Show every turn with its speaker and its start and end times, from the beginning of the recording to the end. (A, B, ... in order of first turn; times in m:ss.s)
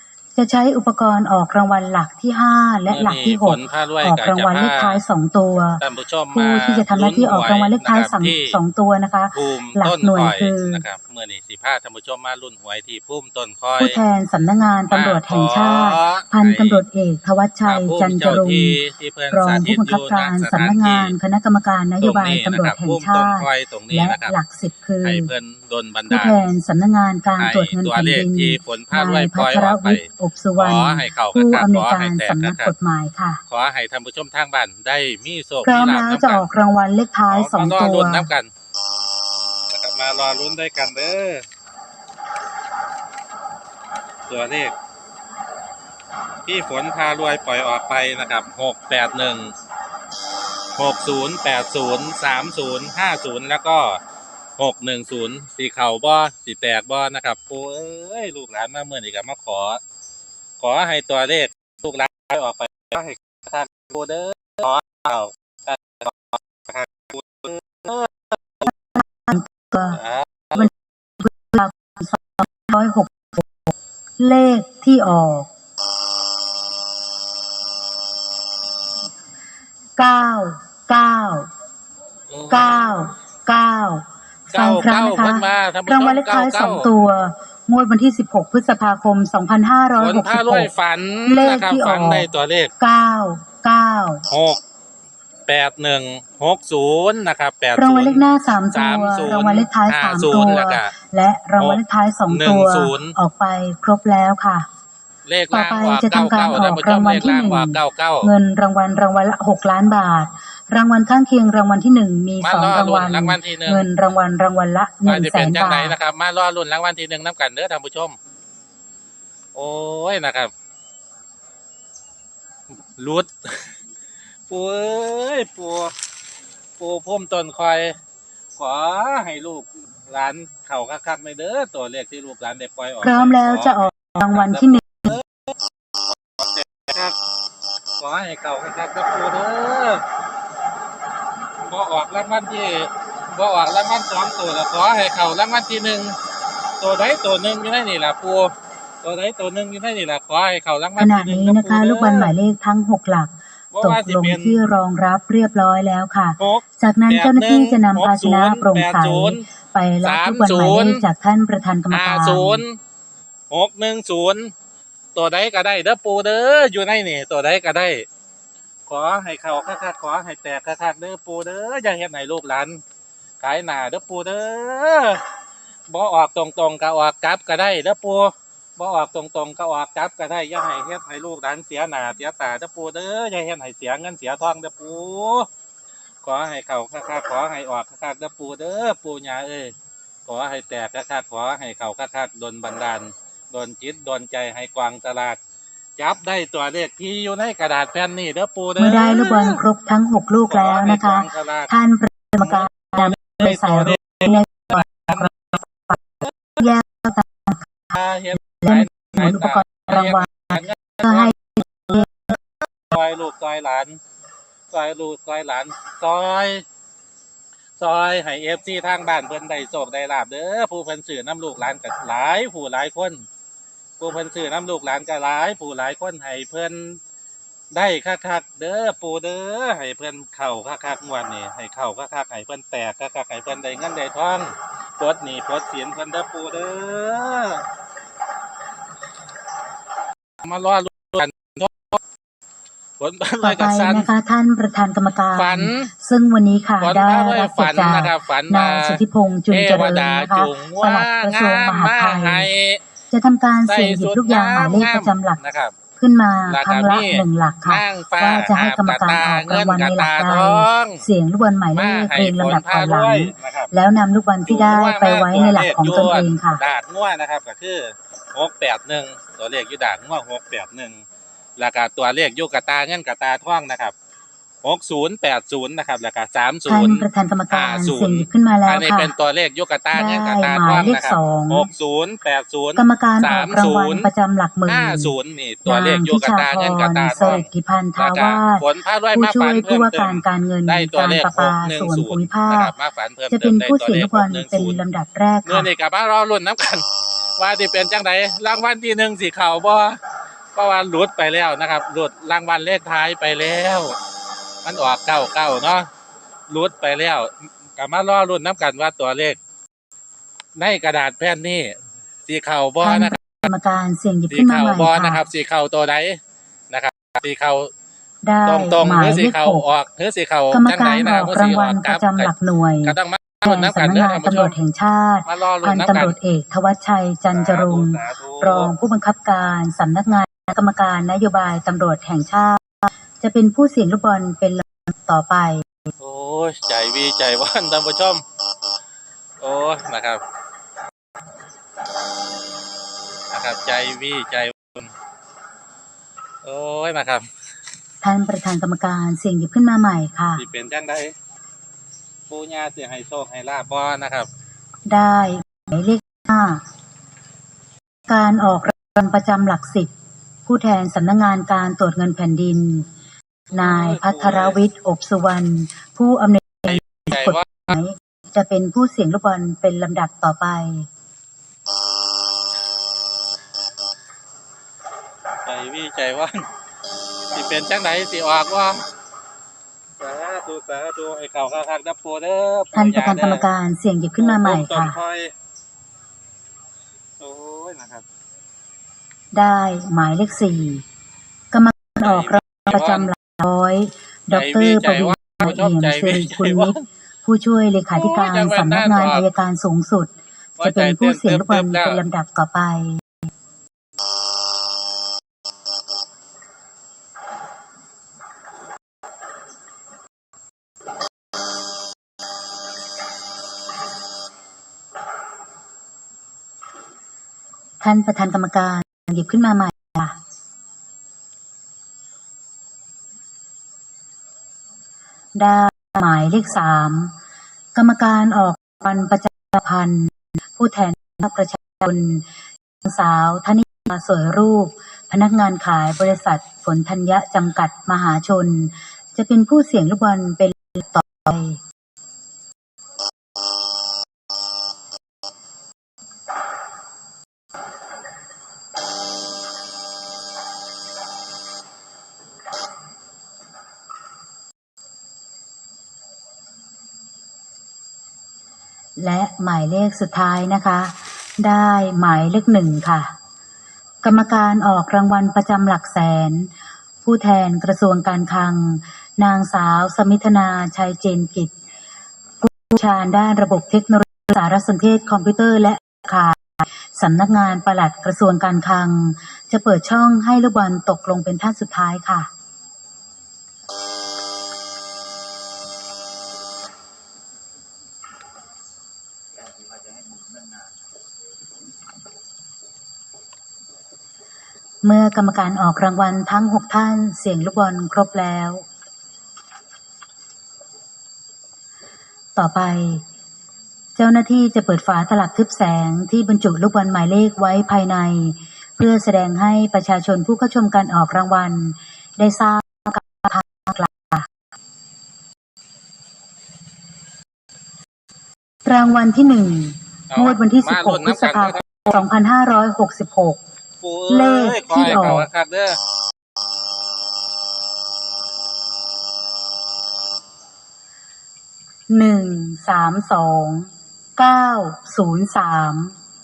0:00.3-0:05.8 A
0:02.9-0:05.0 B
0:05.8-0:08.6 B
0:06.3-0:10.8 A
0:09.3-0:14.0 B
0:13.8-0:18.8 A
0:14.9-0:16.8 B
0:17.6-0:21.1 B
0:19.3-0:25.3 A
0:22.0-0:24.4 B
0:25.0-0:26.5 B
0:26.1-0:33.4 A
0:27.4-0:30.0 B
0:30.6-0:32.7 B
0:33.5-0:36.5 B
0:35.6-0:38.3 A
0:37.3-0:38.5 B
0:39.7-0:41.4 B
0:44.3-0:44.7 B
0:46.4-0:49.5 B
0:50.8-0:54.0 B
0:54.6-0:59.8 B
1:00.6-1:08.7 B
1:08.7-1:10.0 A
1:09.9-1:10.7 B
1:10.5-1:13.5 A
1:14.2-1:15.5 A
1:20.0-1:21.5 A
1:22.3-1:23.0 B
1:22.5-1:30.7 A
1:24.5-1:26.9 B
1:30.0-1:32.7 B
1:31.2-1:32.3 A
1:32.8-1:34.2 A
1:34.3-1:34.6 B
1:35.5-1:40.9 B
1:37.8-1:44.6 A
1:41.6-1:43.1 B
1:45.2-1:48.3 B
1:45.5-1:56.0 A
1:52.4-1:53.9 B
1:55.0-1:58.2 B
1:59.5-2:00.5 B
2:03.0-2:03.3 B
2:04.5-2:05.9 B
2:06.8-2:07.9 B
2:08.6-2:15.5 B
2:13.0-2:15.2 A
2:16.4-2:17.1 B
2:18.0-2:20.0 B
2:21.6-2:26.2 B
2:26.8-2:32.3 B
2:31.0-2:42.6 A
2:33.7-2:34.6 B
2:36.4-2:39.4 B
2:40.0-2:41.0 B
2:41.9-2:42.8 B
2:43.5-2:44.5 B
2:45.1-2:48.0 B
2:48.9-2:52.8 B
2:53.4-2:55.2 B
2:55.9-3:05.5 B
3:06.2-3:09.7 B
3:10.2-3:15.4 B
3:16.0-3:19.6 B
3:18.8-3:26.0 A
3:20.5-3:21.7 B
3:22.4-3:25.5 B
3:26.6-3:27.7 A
3:27.9-3:34.0 B
3:28.4-3:32.2 A
3:34.7-3:36.6 B
3:37.8-3:43.2 B
3:44.0-3:47.0 B
3:47.7-3:57.6 B
4:00.4-4:02.0 B
4:03.0-4:04.1 B
4:03.4-4:12.5 A
4:05.3-4:05.9 B
4:06.8-4:12.8 B
4:13.1-4:15.4 A
4:13.7-4:15.7 B
4:16.0-4:26.6 A
4:16.5-4:21.0 B
4:21.7-4:23.7 B
4:24.4-4:31.0 B
4:31.6-4:33.9 B
4:34.6-4:44.1 B
4:36.7-4:39.1 A
4:39.9-4:41.7 A
4:42.8-4:45.1 A
4:44.7-4:54.8 B
4:45.6-4:52.7 A
4:53.3-4:55.7 A
4:55.4-4:56.8 B
4:57.4-5:00.0 B
5:00.5-5:03.9 B
5:04.6-5:05.9 B
5:06.5-5:09.4 B
5:10.6-5:11.7 B
5:12.2-5:13.5 B
5:12.8-5:15.2 A
5:14.3-5:16.2 B
5:16.7-5:17.7 B
5:18.2-5:19.6 A
5:18.4-5:22.3 B
5:20.5-5:35.7 A
5:22.8-5:24.6 B
5:25.2-5:26.1 B
5:27.3-5:28.7 B
5:36.0-5:38.2 B
5:39.4-5:40.2 B
5:43.3-5:44.9 B
5:46.4-5:47.2 B
5:48.0-5:50.4 A
5:50.4-5:51.1 B
5:52.3-5:54.3 B
5:54.9-5:56.6 A
5:58.1-5:59.9 A
6:00.4-6:02.9 A
6:03.5-6:04.6 B
6:03.5-6:10.9 A
6:06.7-6:07.8 B
6:15.4-6:16.4 B
6:17.3-6:18.8 B
6:20.0-6:23.4 B
6:22.7-6:25.0 A
6:24.2-6:25.3 B
6:27.2-6:28.0 B
6:29.3-6:30.8 A
6:31.5-6:43.0 A
6:32.0-6:33.1 B
6:34.3-6:36.8 B
6:37.9-6:39.3 B
6:40.6-6:42.0 B
6:57.8-7:00.2 A
7:05.4-7:07.1 A
7:07.7-7:12.3 A
7:12.8-7:21.6 A
7:39.0-7:43.1 A
7:44.0-7:46.5 A
7:47.0-7:51.5 A
7:52.4-8:02.3 A
8:14.8-8:18.6 A
8:22.4-8:23.0 A
8:24.0-8:34.3 A
8:38.6-8:43.4 A
8:40.1-8:42.0 B
8:43.8-8:45.8 B
8:44.1-8:45.3 A
8:51.9-8:56.0 A